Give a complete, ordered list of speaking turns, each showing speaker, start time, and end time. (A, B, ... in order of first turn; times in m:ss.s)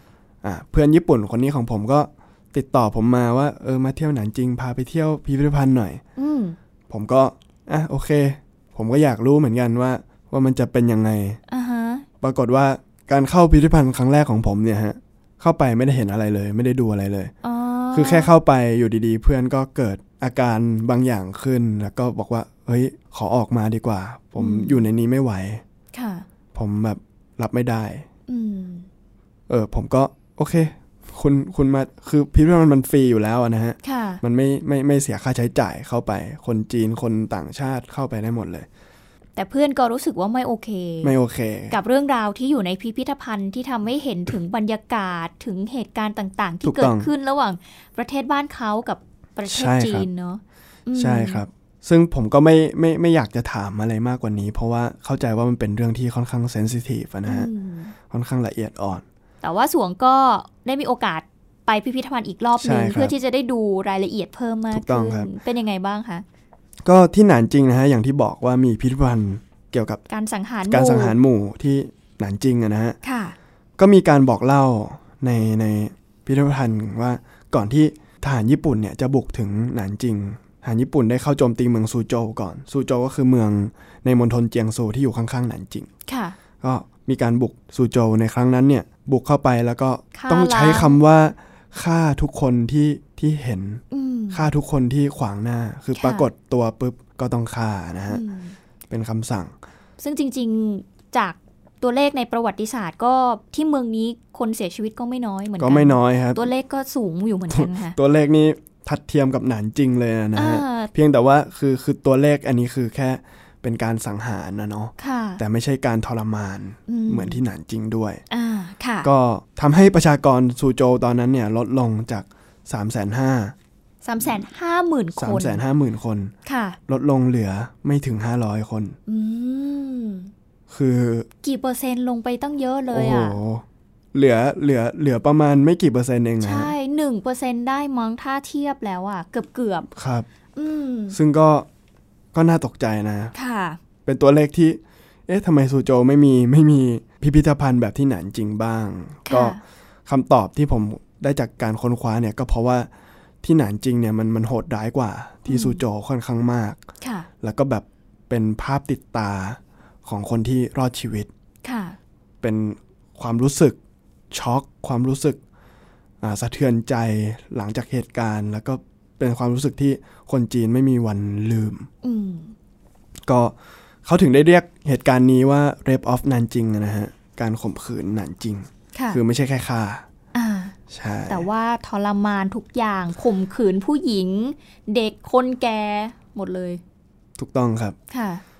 0:00.4-0:06.0 A
0:06.2-0:06.6 B
0:06.9-0:11.4 A
0:11.5-0:12.0 B
0:12.2-0:17.3 A
0:17.4-0:18.3 B
0:17.9-0:25.6 A
0:24.4-0:24.8 B
0:25.9-0:26.2 B
0:26.5-0:28.0 A
0:28.3-0:28.9 B
0:29.5-0:38.7 A
0:33.8-0:34.2 B
0:39.4-0:41.1 B
0:41.0-0:41.8 A
0:41.7-0:51.4 B
0:46.6-0:47.1 A
0:49.5-0:50.1 A
0:51.0-0:57.5 A
0:57.2-0:57.9 B
0:58.1-0:59.0 A
0:59.4-1:06.2 B
1:02.6-1:03.1 A
1:04.7-1:05.3 A
1:06.8-1:10.0 A
1:10.1-1:11.2 B
1:10.7-1:13.0 A
1:13.0-1:13.3 B
1:13.8-1:25.9 A
1:26.1-1:26.4 B
1:26.6-1:38.2 A
1:30.1-1:31.0 B
1:33.9-1:34.5 B
1:36.0-1:36.3 B
1:38.1-1:38.6 B
1:38.9-1:39.5 A
1:40.0-1:48.0 B
1:45.6-1:46.4 A
1:47.5-1:58.2 A
1:50.4-1:50.9 B
1:55.0-1:55.4 B
1:56.9-1:57.4 B
1:58.3-1:59.1 B
1:59.0-2:03.5 A
2:04.0-2:05.6 B
2:05.2-2:06.3 A
2:06.4-2:06.8 B
2:06.9-2:09.0 A
2:09.1-2:10.3 B
2:10.7-2:11.3 A
2:11.4-2:13.4 B
2:12.9-2:16.7 A
2:16.4-2:19.9 B
2:19.9-2:20.3 A
2:20.5-2:21.2 B
2:21.1-2:21.7 A
2:22.3-2:23.3 A
2:23.3-2:23.8 B
2:24.0-2:32.9 A
2:29.3-2:29.6 B
2:33.4-2:36.8 A
2:35.5-2:35.8 B
2:37.0-2:37.3 B
2:37.4-2:41.3 A
2:41.6-2:42.0 B
2:42.4-2:43.8 A
2:44.3-2:45.4 A
2:46.2-2:51.9 A
2:52.0-2:52.5 B
2:53.3-3:00.0 A
2:58.9-2:59.2 B
3:00.3-3:00.7 B
3:00.9-3:01.5 A
3:01.3-3:06.8 B
3:07.4-3:08.0 A
3:08.1-3:08.4 B